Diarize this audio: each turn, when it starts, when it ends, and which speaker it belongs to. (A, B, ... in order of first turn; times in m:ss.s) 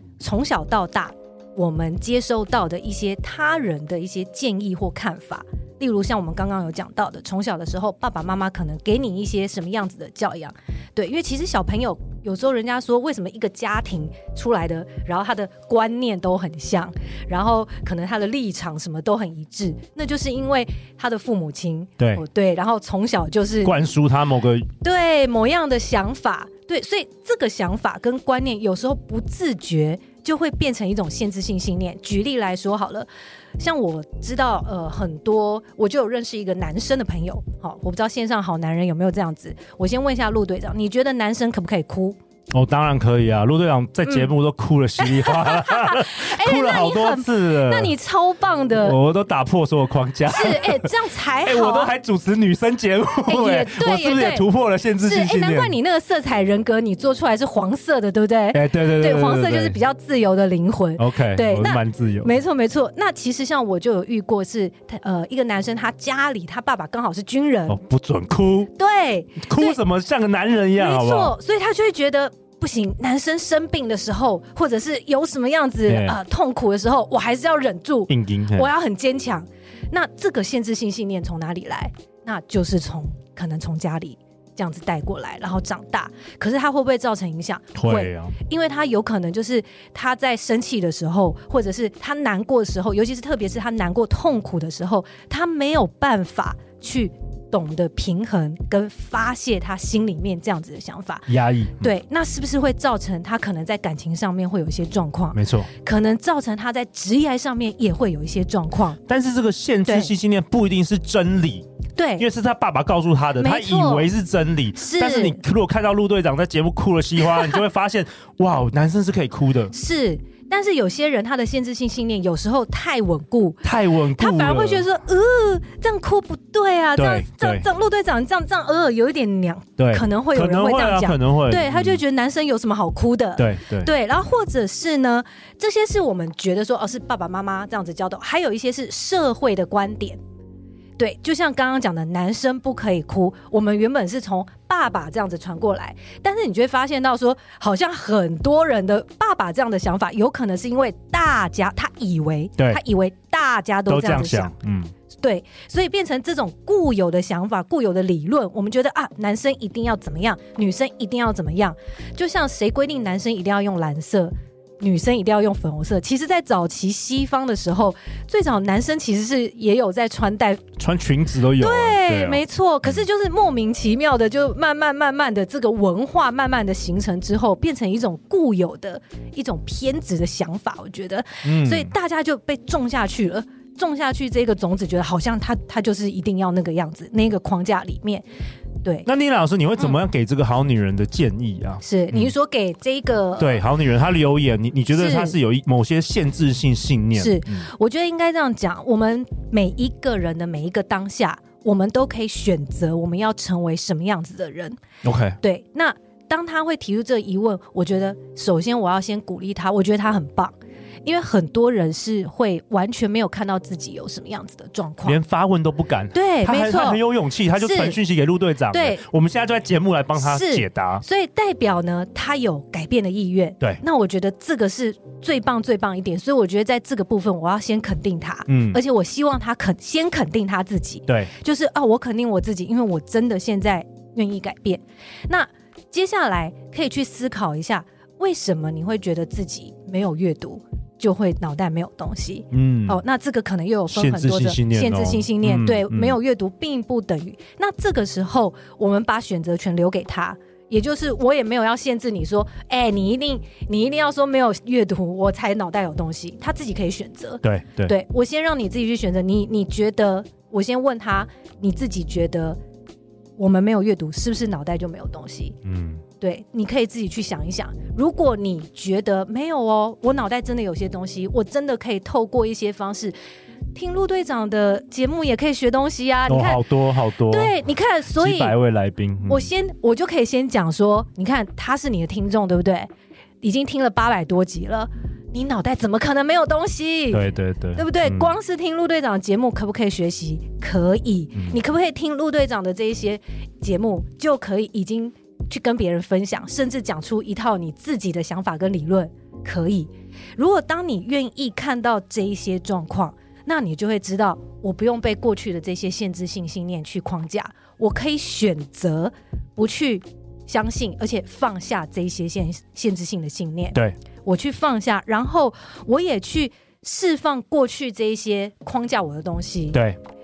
0:00.2-0:23.8 A
0:23.6-0:24.7 B
0:24.8-0:42.2 A
0:42.5-0:48.0 B
0:44.0-0:44.3 A
0:45.0-0:49.0 A
0:48.7-0:55.7 B
0:50.3-0:51.9 A
0:53.3-0:54.5 A
0:55.0-1:07.8 A
0:58.5-0:59.8 B
1:01.0-1:02.3 B
1:07.7-1:08.7 B
1:08.8-1:09.8 A
1:09.4-1:11.3 B
1:10.8-1:41.3 A
1:15.9-1:16.2 B
1:18.1-1:18.7 B
1:27.8-1:28.4 B
1:41.3-1:41.9 B
1:41.8-1:49.0 A
1:45.3-1:45.7 B
1:49.1-1:51.7 B
1:49.8-1:50.1 A
1:52.0-1:52.2 A
1:52.2-1:59.7 B
1:53.4-1:54.1 A
1:54.8-1:55.4 A
1:59.7-2:03.6 A
2:03.6-2:04.8 B
2:04.2-2:20.2 A
2:07.0-2:07.7 B
2:09.8-2:12.0 B
2:13.4-2:13.9 B
2:21.0-2:34.5 A
2:33.9-2:34.9 B
2:35.2-2:50.6 A
2:50.8-2:53.0 B
2:51.6-3:08.3 A
3:01.4-3:01.9 B
3:09.1-3:12.3 B
3:11.8-3:13.6 A
3:13.4-3:17.7 B
3:14.9-3:15.4 A
3:17.2-3:24.8 A
3:25.0-3:25.4 B
3:25.4-3:35.2 A
3:35.0-3:41.0 B
3:36.1-3:37.0 A
3:37.6-3:38.0 A
3:38.7-3:39.0 A
3:40.2-4:22.6 A
3:48.5-3:48.8 B
4:02.5-4:03.0 B
4:03.9-4:06.2 B
4:17.4-4:17.9 B
4:23.4-4:25.6 A
4:25.6-4:26.0 B
4:26.2-4:33.2 A
4:33.8-4:38.6 A
4:36.3-4:37.6 B
4:38.1-4:39.5 B
4:39.3-4:42.9 A
4:43.4-5:19.8 A
4:47.1-4:48.3 B
5:19.7-5:20.0 B